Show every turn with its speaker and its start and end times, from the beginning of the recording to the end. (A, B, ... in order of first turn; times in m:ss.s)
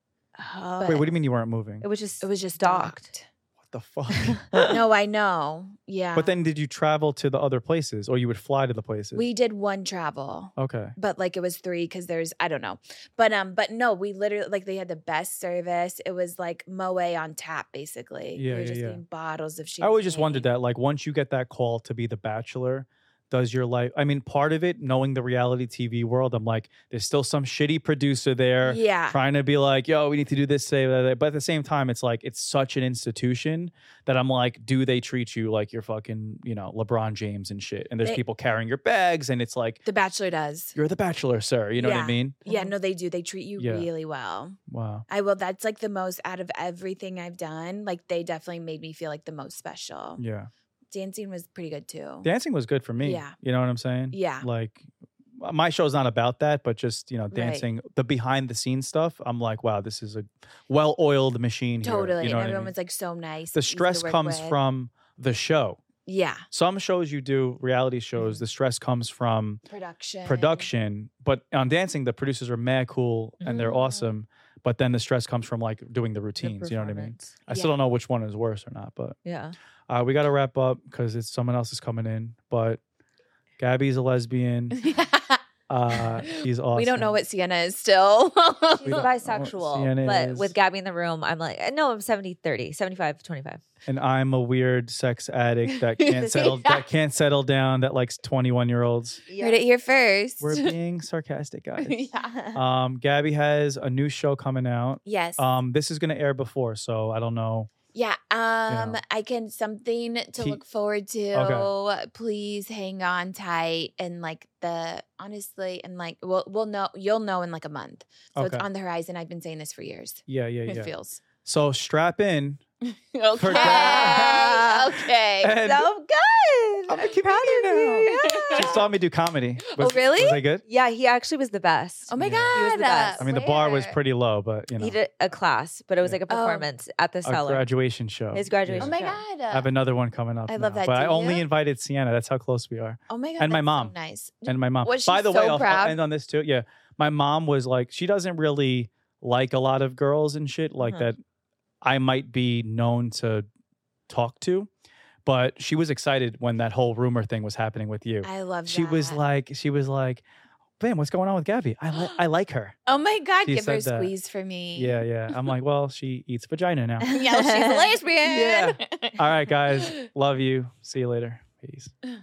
0:00.4-0:01.1 A
0:00.8-0:01.1 B
0:00.8-0:01.8 C
0:01.8-0:03.1 A
0:02.2-0:03.3 B
0:03.6-0:04.7 C
0:04.1-0:04.8 A
0:04.7-0:06.3 B
0:06.2-0:09.2 C
0:09.1-0:20.5 B
0:10.6-0:10.9 C
0:18.4-0:19.0 C
0:19.8-0:39.8 C
0:28.6-0:29.2 B
0:39.8-0:40.7 B
0:40.7-0:42.4 C
0:41.8-0:50.2 B
0:43.6-0:43.9 C
0:44.7-0:45.0 C
0:50.2-0:50.5 C
0:50.9-0:52.3 B
0:52.2-0:54.8 C
0:53.0-0:53.3 B
0:54.1-0:54.5 B
0:55.4-1:02.7 C
0:57.3-0:57.7 B
1:01.8-1:04.6 B
1:03.5-1:05.8 C
1:06.0-1:06.4 B
1:06.5-1:09.6 C
1:09.7-1:10.7 B
1:10.2-1:19.2 C
1:13.4-1:13.7 A
1:13.4-1:14.1 B
1:16.4-1:17.4 A
1:17.5-1:17.7 B
1:19.2-1:19.5 A
1:19.9-1:22.8 C
1:23.6-1:24.8 C
1:24.7-1:29.1 B
1:25.7-1:27.2 C
1:28.8-1:33.6 A
1:28.9-1:30.6 C
1:33.8-1:39.2 C
1:35.7-1:36.8 B
1:36.0-1:36.7 A
1:39.3-1:39.6 A
1:39.4-1:40.7 B
1:40.4-1:42.0 C
1:41.8-1:42.4 B
1:42.5-1:47.7 C
1:45.0-1:45.4 B
1:47.9-2:01.2 B
1:48.7-1:49.0 C
1:51.3-1:51.7 C
1:58.4-1:58.6 C
2:00.3-2:00.9 C
2:01.4-2:02.6 C
2:02.8-2:05.6 B
2:03.4-2:04.6 C
2:03.5-2:05.0 A
2:05.4-2:05.9 C
2:05.6-2:08.8 A
2:06.9-2:10.6 C
2:08.1-2:08.8 B
2:09.6-2:10.4 B
2:10.6-2:13.4 A
2:12.1-2:14.0 B
2:12.2-2:12.7 C
2:13.2-2:15.0 C
2:14.8-2:17.6 A
2:16.3-2:16.7 B
2:17.2-2:19.0 C
2:18.3-2:19.2 A
2:18.8-2:19.7 B
2:19.5-2:23.9 C
2:20.5-2:21.4 B
2:23.1-2:26.0 B
2:24.4-2:31.2 C
2:30.8-2:31.0 A
2:31.8-2:33.4 C
2:34.1-2:34.7 C
2:35.2-2:40.2 C
2:38.2-2:39.2 B
2:40.8-2:42.8 C
2:42.9-2:45.0 B
2:43.4-2:44.1 C
2:44.8-2:47.0 C
2:47.0-2:48.0 A
2:47.0-2:49.2 B
2:48.2-2:51.9 C
2:49.8-2:50.0 B